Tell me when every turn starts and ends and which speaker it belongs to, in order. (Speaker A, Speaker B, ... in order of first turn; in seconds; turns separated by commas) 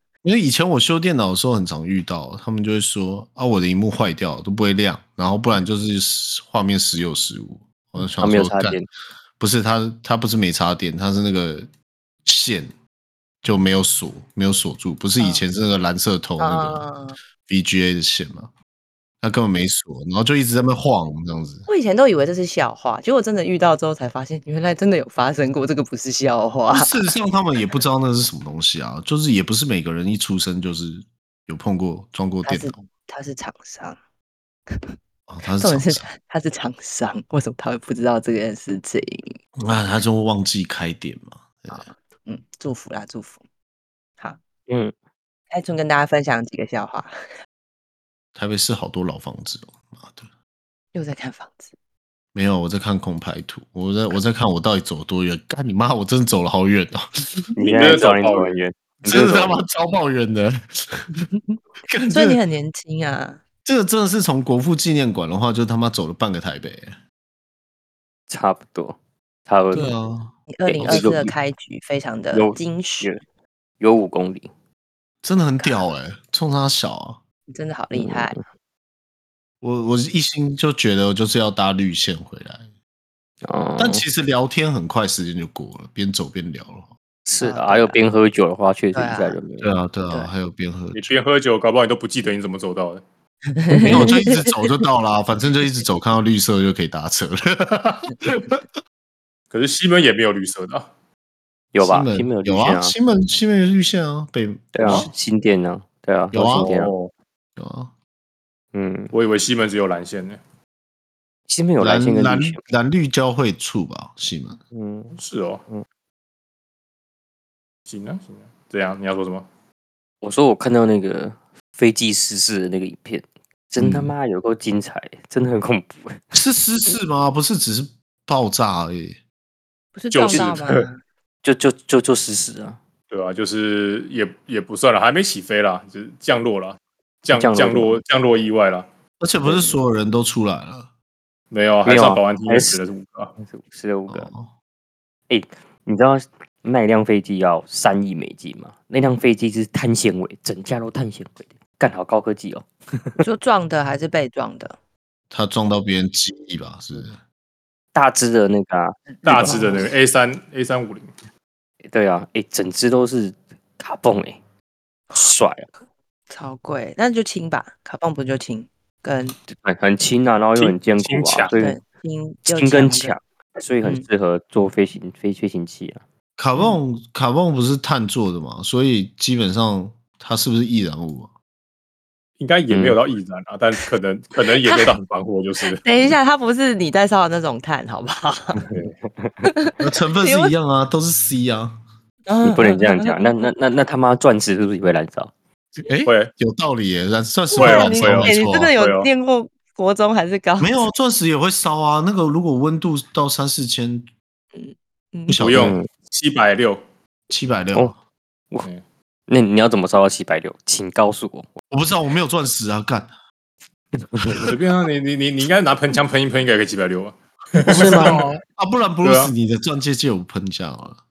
Speaker A: 0.2-8.8, Speaker B: 8.2-8.8, Speaker A: 9.4-11.7, Speaker A: 12.2-12.7, Speaker A: 13.4-16.8, Speaker C: 15.2-15.4, Speaker C: 16.4-17.2, Speaker A: 17.5-18.5, Speaker A: 19.2-21.7, Speaker C: 21.7-27.1, Speaker A: 26.7-32.9, Speaker C: 32.4-34.0, Speaker A: 35.3-36.1, Speaker C: 35.6-39.4, Speaker A: 39.6-41.8, Speaker C: 41.7-43.4, Speaker B: 44.7-44.9, Speaker C: 45.5-47.1, Speaker A: 48.3-50.3, Speaker C: 50.9-51.7, Speaker A: 52.3-57.0, Speaker B: 57.5-59.6, Speaker D: 57.6-58.6, Speaker A: 59.0-61.1, Speaker C: 61.3-61.6, Speaker A: 61.9-62.4, Speaker C: 62.1-63.4, Speaker A: 63.6-67.0, Speaker B: 68.3-69.0, Speaker B: 69.5-69.9, Speaker A: 69.7-70.3, Speaker C: 70.5-73.1, Speaker B: 70.7-71.3, Speaker A: 70.8-71.1, Speaker B: 72.3-73.2, Speaker B: 73.8-74.5, Speaker A: 75.2-77.2, Speaker C: 77.5-78.4, Speaker B: 77.9-78.4, Speaker A: 79.6-82.7, Speaker B: 83.4-84.0, Speaker A: 83.8-86.9, Speaker B: 87.2-89.7, Speaker C: 87.4-88.0, Speaker C: 88.9-89.4, Speaker A: 89.6-91.2, Speaker D: 90.9-93.0, Speaker C: 93.5-94.5, Speaker A: 93.8-98.6, Speaker B: 93.8-94.1, Speaker D: 99.5-100.9, Speaker B: 101.7-102.9, Speaker A: 101.8-105.1, Speaker B: 104.7-106.9, Speaker A: 106.3-106.7, Speaker D: 106.4-107.1, Speaker A: 107.6-107.9, Speaker B: 108.7-109.1, Speaker D: 109.1-110.4, Speaker B: 111.5-112.6, Speaker A: 111.8-114.6, Speaker B: 114.7-115.1, Speaker D: 115.1-115.6, Speaker D: 117.9-119.5, Speaker B: 120.2-126.2, Speaker A: 123.8-124.1, Speaker A: 126.3-129.2, Speaker C: 129.9-131.0, Speaker D: 130.1-130.7, Speaker B: 130.3-130.6, Speaker B: 131.4-132.8, Speaker D: 133.1-138.9, Speaker B: 137.3-138.0, Speaker A: 139.2-140.9, Speaker B: 139.4-139.8, Speaker D: 141.5-143.3, Speaker B: 141.8-142.8, Speaker B: 143.4-144.3, Speaker A: 144.1-144.5, Speaker B: 145.3-153.2, Speaker C: 153.2-154.8, Speaker A: 155.3-157.2, Speaker B: 157.9-159.9, Speaker C: 159.2-159.8, Speaker D: 159.2-161.2, Speaker B: 161.9-164.4, Speaker B: 165.1-165.7, Speaker C: 166.3-169.4, Speaker B: 169.5-171.8, Speaker D: 170.5-171.5, Speaker C: 171.6-173.2, Speaker B: 172.4-176.0, Speaker A: 176.4-181.3, Speaker D: 182.4-185.8, Speaker B: 182.7-183.0, Speaker C: 184.6-184.9, Speaker C: 185.7-188.7, Speaker B: 188.6-189.5, Speaker C: 189.4-190.5, Speaker A: 189.8-191.8, Speaker C: 192.3-193.2, Speaker B: 192.4-195.3, Speaker A: 195.8-198.7, Speaker D: 196.1-196.3, Speaker C: 197.5-200.8, Speaker D: 197.6-199.1, Speaker A: 200.6-204.1, Speaker C: 204.5-205.4, Speaker A: 205.3-205.8, Speaker D: 205.4-206.8, Speaker B: 205.5-205.9, Speaker A: 207.3-207.9, Speaker B: 209.3-211.6, Speaker A: 211.7-213.1, Speaker B: 214.0-214.5, Speaker D: 214.3-218.2, Speaker A: 217.7-221.0, Speaker B: 217.7-218.3, Speaker D: 219.0-219.3